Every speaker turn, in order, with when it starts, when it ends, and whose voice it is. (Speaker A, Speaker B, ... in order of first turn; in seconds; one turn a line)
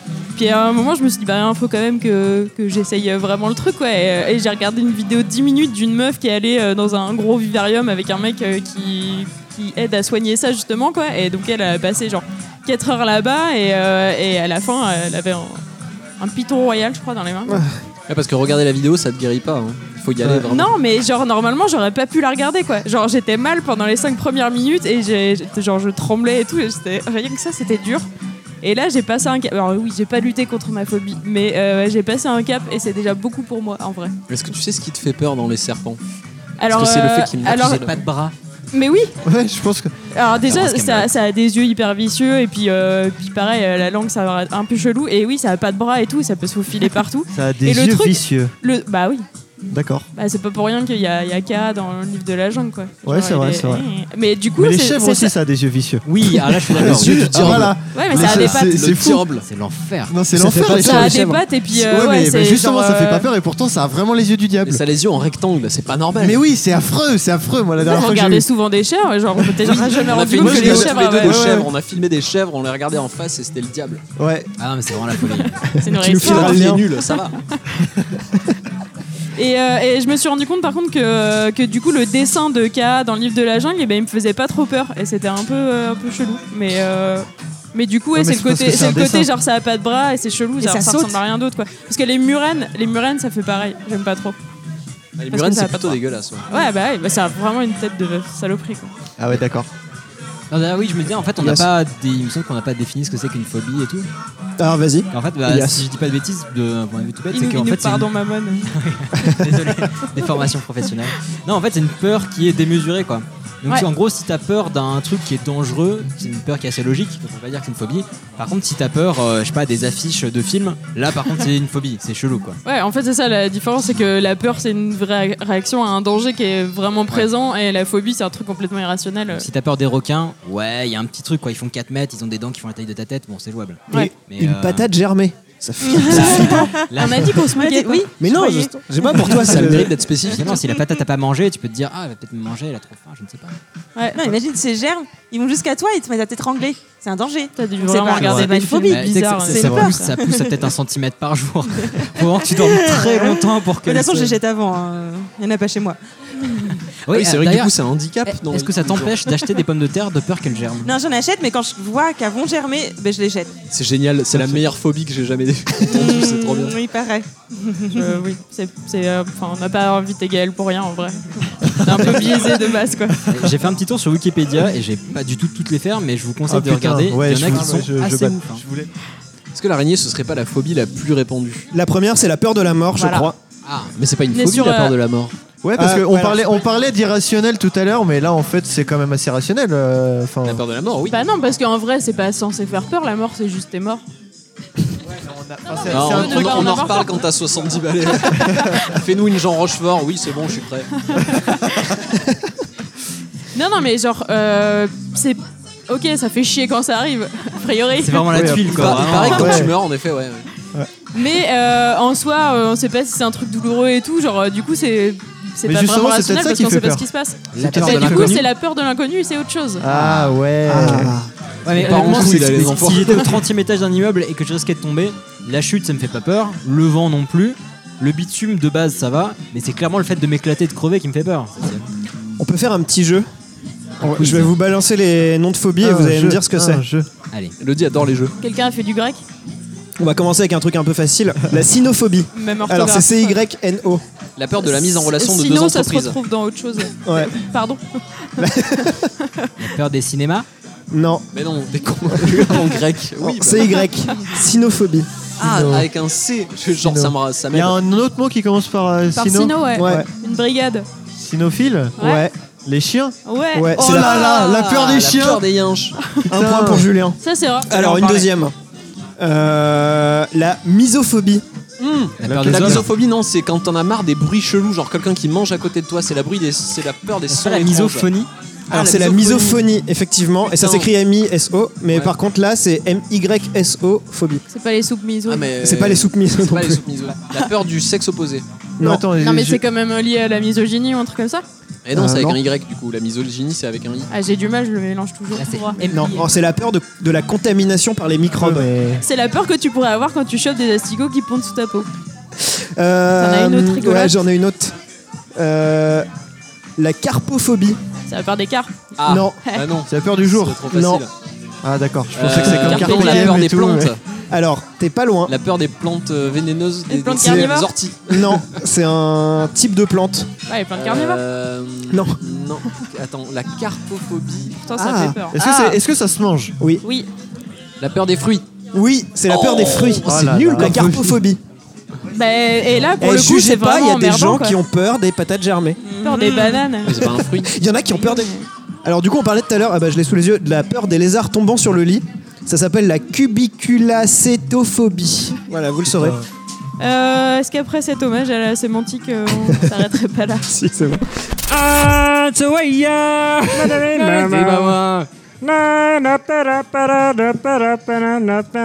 Speaker A: 0.3-15.6
Speaker A: 16.2-17.6
Speaker B: 17.5-17.8
Speaker C: 18.1-20.8
Speaker A: 20.5-28.1
Speaker A: 28.6-34.1
Speaker C: 34.3-36.0
Speaker A: 36.6-37.9
Speaker C: 36.7-38.0
Speaker D: 37.5-38.3
Speaker A: 38.7-39.1
Speaker E: 39.3-39.9
Speaker A: 40.1-49.2
Speaker C: 40.5-41.0
Speaker E: 47.3-48.5
Speaker E: 49.7-50.0
Speaker A: 50.1-55.3
Speaker E: 53.0-53.9
Speaker E: 54.6-59.3
Speaker D: 56.0-58.7
Speaker C: 56.7-59.5
Speaker A: 57.9-58.6
Speaker D: 59.4-60.2
Speaker E: 60.1-64.8
Speaker B: 60.3-61.4
Speaker A: 60.7-63.3
Speaker C: 64.7-66.4
Speaker E: 66.2-68.5
Speaker A: 67.8-71.4
Speaker E: 69.6-71.7
Speaker C: 69.7-74.0
Speaker E: 74.2-74.5
Speaker D: 74.6-75.6
Speaker A: 75.2-77.2
Speaker B: 75.8-76.8
Speaker C: 76.2-77.3
Speaker A: 79.4-94.4
Speaker E: 88.1-89.3
Speaker F: 90.6-91.2
Speaker C: 95.2-96.5
Speaker A: 95.3-98.9
Speaker E: 99.2-99.7
Speaker D: 100.5-104.1
Speaker B: 101.4-101.7
Speaker B: 104.6-105.8
Speaker D: 105.1-108.1
Speaker A: 107.3-108.7
Speaker D: 108.7-122.6
Speaker A: 122.7-129.5
Speaker D: 129.3-134.9
Speaker B: 133.9-136.7
Speaker A: 135.8-138.1
Speaker D: 136.1-137.5
Speaker F: 136.2-136.9
Speaker F: 137.6-138.7
Speaker B: 138.2-139.9
Speaker C: 139.2-140.5
Speaker D: 139.5-143.6
Speaker F: 144.1-150.6
Speaker A: 147.6-150.2
Speaker D: 148.9-154.4
Speaker F: 152.0-156.8
Speaker D: 157.1-157.7
Speaker C: 157.1-159.2
Speaker D: 158.3-160.9
Speaker F: 160.8-163.5
Speaker C: 163.7-166.8
Speaker F: 165.8-168.2
Speaker A: 167.9-173.2
Speaker E: 171.9-172.4
Speaker D: 173.3-178.6
Speaker E: 176.5-178.9
Speaker C: 179.5-181.7
Speaker B: 181.7-183.4
Speaker A: 183.0-183.3
Speaker C: 183.9-185.3
Speaker A: 184.3-184.9
Speaker E: 185.6-190.6
Speaker B: 185.8-186.4
Speaker C: 190.4-191.2
Speaker A: 191.1-194.0
Speaker E: 195.2-197.0
Speaker A: 195.8-197.2
Speaker C: 195.9-201.4
Speaker A: 198.2-198.7
Speaker A: 201.1-201.8
Speaker A: 203.5-208.4
Speaker D: 208.0-209.7
Speaker E: 208.3-209.7
Speaker C: 208.6-210.5
Speaker A: 211.1-219.8
Speaker E: 215.6-218.4
Speaker D: 217.5-218.4
Speaker E: 219.8-221.2
Speaker D: 219.9-220.3
Speaker B: 220.7-221.3
Speaker D: 221.7-231.8
Speaker C: 221.7-223.4
Speaker B: 232.4-233.3
Speaker B: 234.0-236.8
Speaker D: 234.2-234.5
Speaker E: 235.8-237.1
Speaker C: 237.6-238.3
Speaker A: 238.4-239.2
Speaker B: 240.0-244.0
Speaker A: 242.3-243.4
Speaker C: 244.4-246.2
Speaker A: 244.6-249.5
Speaker B: 247.0-247.3
Speaker B: 248.4-249.1
Speaker D: 249.6-250.5
Speaker B: 250.9-251.3
Speaker C: 251.3-253.9
Speaker B: 252.1-255.1
Speaker C: 255.4-257.8
Speaker E: 255.4-255.9
Speaker E: 256.8-259.7
Speaker A: 259.1-260.9
Speaker B: 259.7-260.1
Speaker E: 261.2-262.0
Speaker A: 262.0-262.2
Speaker B: 262.0-262.3
Speaker E: 262.7-263.2
Speaker A: 263.2-264.4
Speaker B: 263.5-264.2
Speaker E: 263.7-265.4
Speaker C: 264.1-266.0
Speaker B: 266.3-268.5
Speaker E: 266.3-266.9
Speaker A: 267.2-268.3
Speaker B: 269.2-271.4
Speaker C: 271.8-278.1
Speaker D: 272.2-272.9
Speaker E: 272.3-272.8
Speaker D: 277.3-278.3
Speaker B: 278.7-284.4
Speaker C: 278.8-279.5
Speaker C: 280.5-280.9
Speaker A: 284.5-285.5
Speaker C: 285.3-288.4
Speaker B: 285.6-286.8
Speaker E: 288.8-289.6
Speaker A: 289.2-291.4
Speaker C: 291.9-294.1
Speaker B: 291.9-292.4
Speaker A: 294.1-296.2
Speaker D: 295.3-296.1
Speaker B: 295.9-298.7
Speaker E: 298.4-299.0
Speaker A: 299.0-301.9
Speaker B: 302.4-304.8
Speaker A: 303.2-304.1
Speaker B: 305.4-306.1
Speaker B: 306.8-307.8
Speaker A: 308.1-308.8
Speaker C: 309.0-311.1
Speaker B: 309.1-309.4
Speaker E: 309.9-310.6
Speaker B: 310.7-311.0
Speaker E: 311.6-313.9
Speaker C: 312.1-314.0
Speaker A: 312.4-313.3
Speaker B: 314.3-315.3
Speaker C: 315.3-318.4
Speaker A: 316.9-317.7
Speaker B: 317.2-320.3
Speaker A: 320.5-321.2
Speaker C: 320.7-324.6
Speaker B: 321.9-322.2
Speaker A: 324.6-325.8
Speaker B: 324.8-325.2
Speaker E: 325.3-326.6
Speaker A: 326.8-327.1
Speaker C: 327.8-328.5
Speaker B: 328.7-331.4
Speaker C: 329.3-330.1
Speaker E: 330.1-331.2
Speaker A: 332.1-334.6
Speaker B: 333.0-335.8
Speaker F: 335.9-336.6
Speaker A: 336.0-337.1
Speaker C: 336.8-337.5
Speaker B: 337.0-338.3
Speaker A: 337.9-338.5
Speaker B: 338.9-346.2
Speaker A: 346.8-350.5
Speaker B: 350.5-351.8
Speaker D: 353.9-355.1
Speaker C: 354.2-354.8